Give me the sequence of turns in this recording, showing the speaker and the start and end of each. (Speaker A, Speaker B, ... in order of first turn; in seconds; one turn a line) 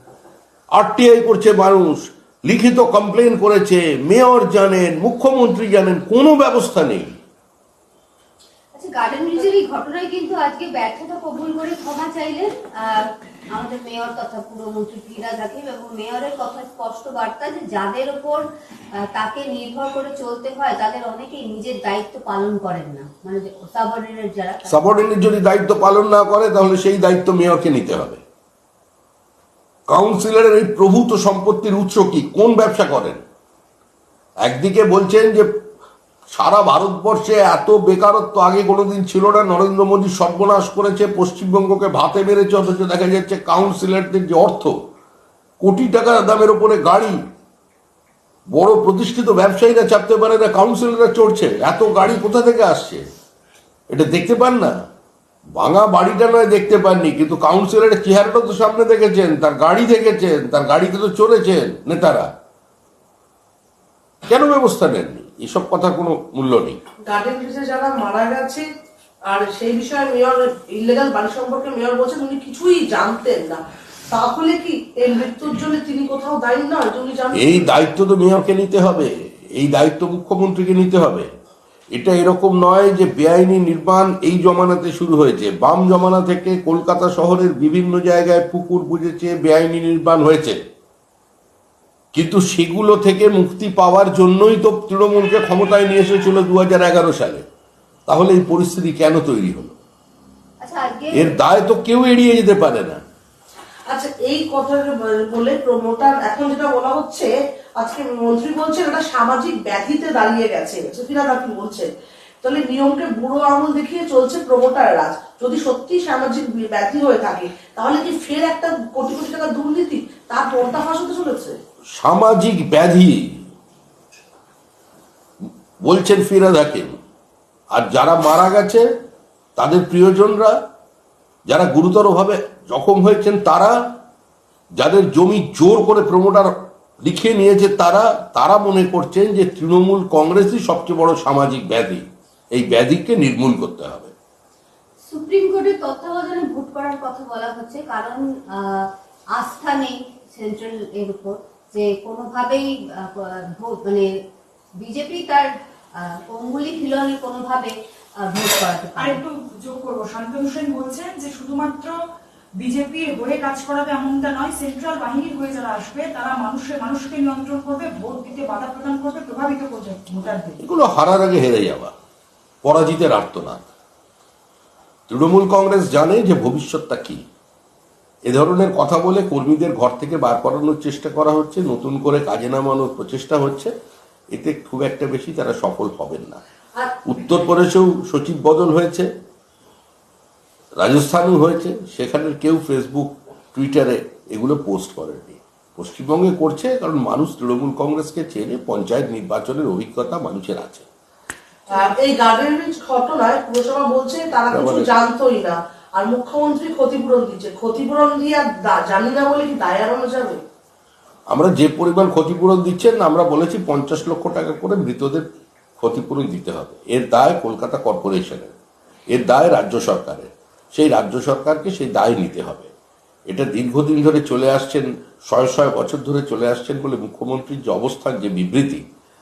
Speaker A: 0.7-7.1
Speaker B: 8.7-18.4
Speaker B: 18.9-24.8
Speaker A: 24.7-28.2
Speaker A: 29.9-33.2
Speaker A: 34.4-35.5
Speaker A: 36.3-44.8
Speaker A: 45.6-47.2
Speaker A: 48.5-53.0
Speaker A: 53.9-54.8
Speaker A: 55.5-62.3
Speaker A: 64.3-66.8
Speaker C: 67.0-68.7
Speaker C: 69.3-77.7
Speaker A: 77.3-81.3
Speaker A: 81.9-90.6
Speaker A: 92.2-97.5
Speaker A: 98.1-99.8
Speaker B: 100.6-101.4
Speaker A: 101.1-103.0
Speaker C: 103.9-111.9
Speaker C: 112.4-121.6
Speaker A: 122.0-123.4
Speaker A: 125.8-127.0
Speaker A: 127.7-128.9
Speaker A: 129.6-130.6
Speaker A: 131.5-133.8
Speaker A: 134.8-144.1
Speaker B: 145.1-154.1
Speaker B: 154.8-159.2
Speaker D: 159.0-162.0
Speaker D: 162.6-170.6
Speaker A: 170.6-171.9
Speaker A: 172.6-173.7
Speaker A: 175.1-177.2
Speaker A: 178.3-183.7
Speaker A: 184.3-186.4
Speaker C: 186.8-187.1
Speaker A: 187.1-189.1
Speaker A: 190.8-200.9
Speaker C: 201.7-210.4
Speaker A: 204.5-204.9
Speaker A: 211.3-215.3
Speaker A: 215.8-218.5
Speaker A: 219.1-222.7
Speaker A: 223.3-228.8